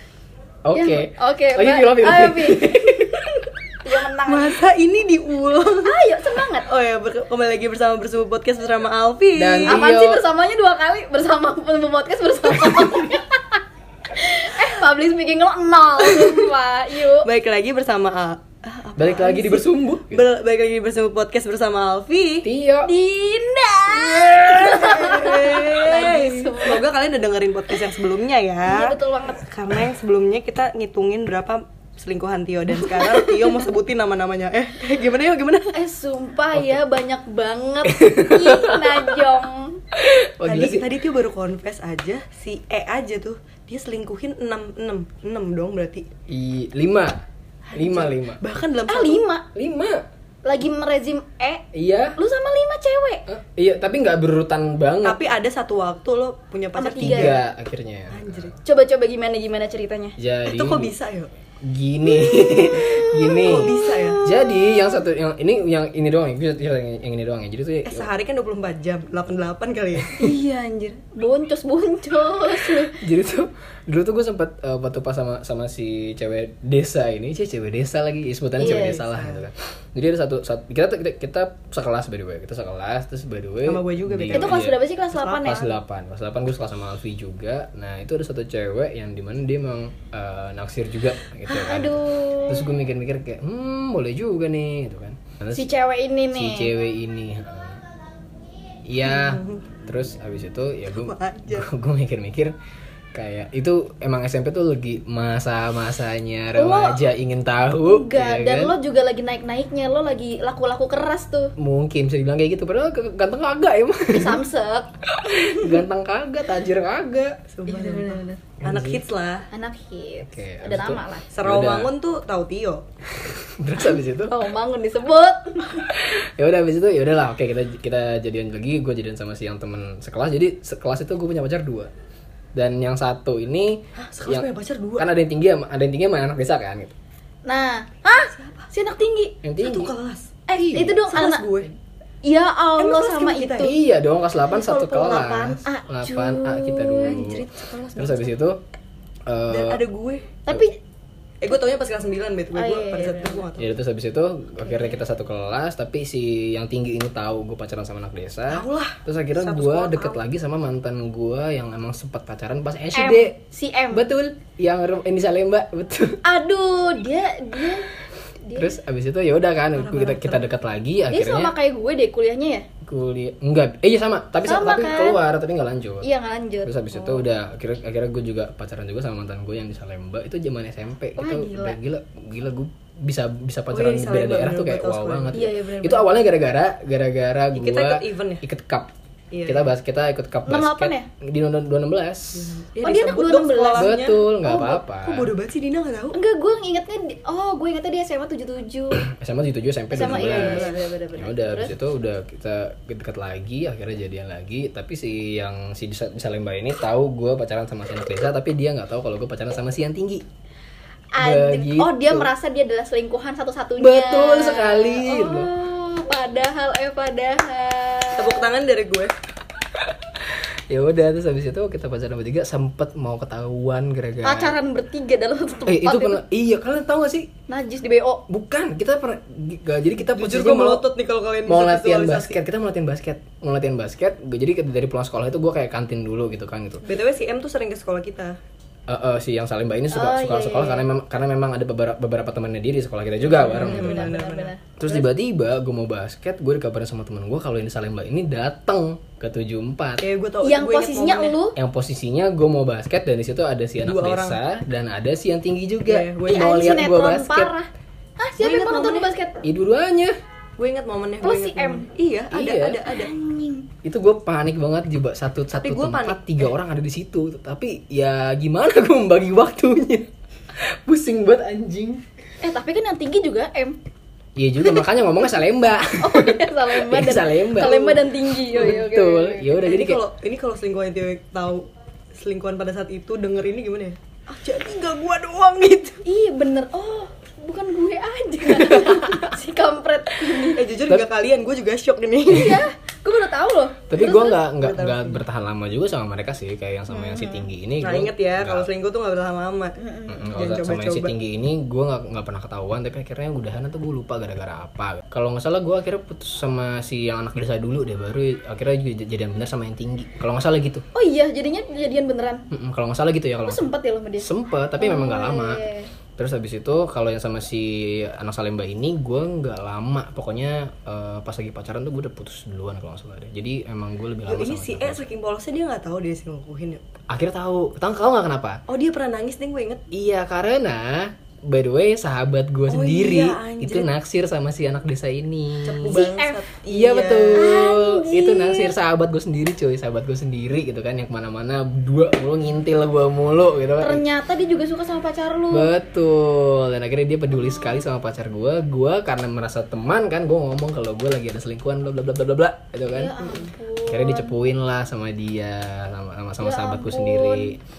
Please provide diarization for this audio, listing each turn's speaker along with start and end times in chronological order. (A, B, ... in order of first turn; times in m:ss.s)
0:00.6-0:03.4 A
0:00.7-0:02.9 B
0:03.8-0:04.6 B
0:04.2-0:06.0 C
0:05.8-0:06.7 B
0:06.6-0:09.8 C
0:09.4-0:10.2 A
0:09.7-0:13.6 B
0:14.1-0:17.3 B
0:16.0-0:16.5 C
0:17.2-0:22.5 C
0:19.0-0:20.2 A
0:22.4-0:22.9 A
0:22.8-0:26.8 B
0:23.9-0:35.8 C
0:28.6-0:29.4 B
0:35.7-0:39.8 B
0:37.9-0:39.2 A
0:40.0-0:40.8 A
0:40.4-0:46.1 C
0:46.3-0:47.2 A
0:47.7-0:49.2 C
0:47.7-0:48.4 A
0:48.9-0:49.4 B
0:49.6-0:50.0 A
0:50.4-0:51.6 B
0:51.7-0:52.2 A
0:52.2-0:53.2 B
0:53.3-0:55.2 A
0:55.0-0:57.4 C
0:56.8-0:57.4 B
0:57.0-0:58.4 A
0:58.1-0:58.6 C
0:58.6-1:00.2 B
1:00.2-1:00.9 A
1:00.5-1:01.3 C
1:01.6-1:08.1 A
1:02.1-1:05.0 B
1:03.4-1:04.2 C
1:07.8-1:10.4 C
1:10.2-1:13.0 B
1:13.0-1:24.8 A
1:18.6-1:19.5 C
1:18.6-1:19.0 B
1:23.6-1:24.6 C
1:24.3-1:25.7 B
1:25.1-1:25.6 C
1:25.4-1:35.7 A
1:31.5-1:32.7 B
1:35.5-1:36.7 B
1:36.3-1:37.8 A
1:38.9-1:42.6 A
1:39.1-1:39.6 C
1:41.0-1:41.7 C
1:43.1-1:48.8 A
1:46.6-1:47.0 B
1:47.8-1:51.6 B
1:51.6-1:54.4 A
1:54.1-1:55.8 B
1:55.1-1:57.4 A
1:57.5-1:59.5 C
1:57.7-1:58.4 B
1:58.6-1:59.0 A
1:59.5-2:01.3 B
2:00.3-2:01.9 A
2:01.3-2:02.8 C
2:03.2-2:04.4 A
2:04.0-2:05.9 B
2:05.9-2:11.9 A
2:12.5-2:16.9 A
2:14.0-2:15.1 C
2:17.4-2:19.4 B
2:18.1-2:18.7 C
2:19.4-2:19.9 A
2:19.6-2:21.7 C
2:20.5-2:21.0 A
2:20.5-2:21.5 B
2:22.2-2:23.7 B
2:22.8-2:23.7 C
2:23.6-2:28.6 A
2:24.5-2:27.4 B
2:27.0-2:28.3 C
2:29.3-2:29.8 A
2:29.5-2:30.4 C
2:30.5-2:30.8 B
2:31.4-2:33.7 C
2:32.5-2:33.5 B
2:33.6-2:43.4 A
2:34.6-2:35.0 B
2:38.5-2:40.2 C
2:42.9-2:44.1 B
2:43.9-2:46.2 A
2:46.2-2:47.9 B
2:48.4-2:48.8 B
2:48.6-2:51.5 A
2:49.8-2:50.5 C
2:51.1-2:52.7 B
2:52.8-2:56.1 A
2:54.4-2:55.2 B
2:56.0-2:57.1 B
2:56.6-3:08.9 A
3:01.2-3:01.8 B
3:03.7-3:05.4 C
3:05.3-3:06.1 B
3:07.5-3:08.4 C
3:09.3-3:09.7 C
3:09.5-3:12.6 A
3:10.5-3:11.1 B
3:12.3-3:16.2 C
3:12.8-3:14.7 B
3:13.7-3:15.3 A
3:16.1-3:19.1 B
3:19.0-3:30.2 A
3:19.9-3:21.8 B
3:20.0-3:20.9 C
3:31.1-3:38.5 B
3:31.2-3:32.3 A
3:33.8-3:35.5 A
3:38.1-3:39.1 C
3:39.8-3:44.6 A
3:44.2-3:46.2 B
3:45.7-3:47.3 A
3:47.5-3:48.2 B
3:48.3-3:50.8 A
3:50.1-3:52.4 C
3:51.5-3:56.8 A
3:56.9-3:58.4 C
3:58.9-4:04.2 A
3:59.9-4:00.9 B
4:03.3-4:04.5 C
4:03.4-4:05.1 B
4:04.8-4:10.0 A
4:10.0-4:11.4 C
4:10.4-4:11.6 B
4:11.6-4:17.5 A
4:13.8-4:14.4 C
4:15.8-4:16.7 C
4:16.3-4:19.4 B
4:18.4-4:19.1 C
4:19.4-4:20.2 A
4:20.6-4:23.1 C
4:21.2-4:21.9 B
4:22.3-4:22.8 A
4:22.9-4:23.7 B
4:23.8-4:32.0 A
4:25.6-4:26.5 C
4:32.4-4:33.8 B
4:34.4-4:40.0 A
4:36.0-4:39.6 B
4:39.6-4:46.0 C
4:46.0-4:50.6 B
4:48.6-4:49.3 A
4:50.6-4:52.6 C
4:52.3-4:54.4 B
4:53.9-4:58.7 A
4:54.2-4:55.2 C
4:56.9-4:57.5 B
4:57.8-4:59.8 C
4:59.8-5:00.3 B
5:00.1-5:10.8 A
5:00.3-5:01.2 C
5:10.9-5:12.4 B
5:12.5-5:15.6 A
5:13.4-5:15.9 B
5:16.2-5:25.0 A
5:24.3-5:26.8 C
5:27.1-5:28.6 A
5:28.7-5:29.8 C
5:29.9-5:36.1 A
5:32.7-5:33.9 C
5:35.6-5:37.6 C
5:35.8-5:36.5 B
5:36.7-5:44.0 A
5:37.4-5:38.8 B
5:43.8-5:45.7 B
5:45.5-5:53.2 A
5:52.9-5:54.3 B
5:53.2-5:53.5 C
5:53.9-5:57.6 A
5:56.4-5:57.6 B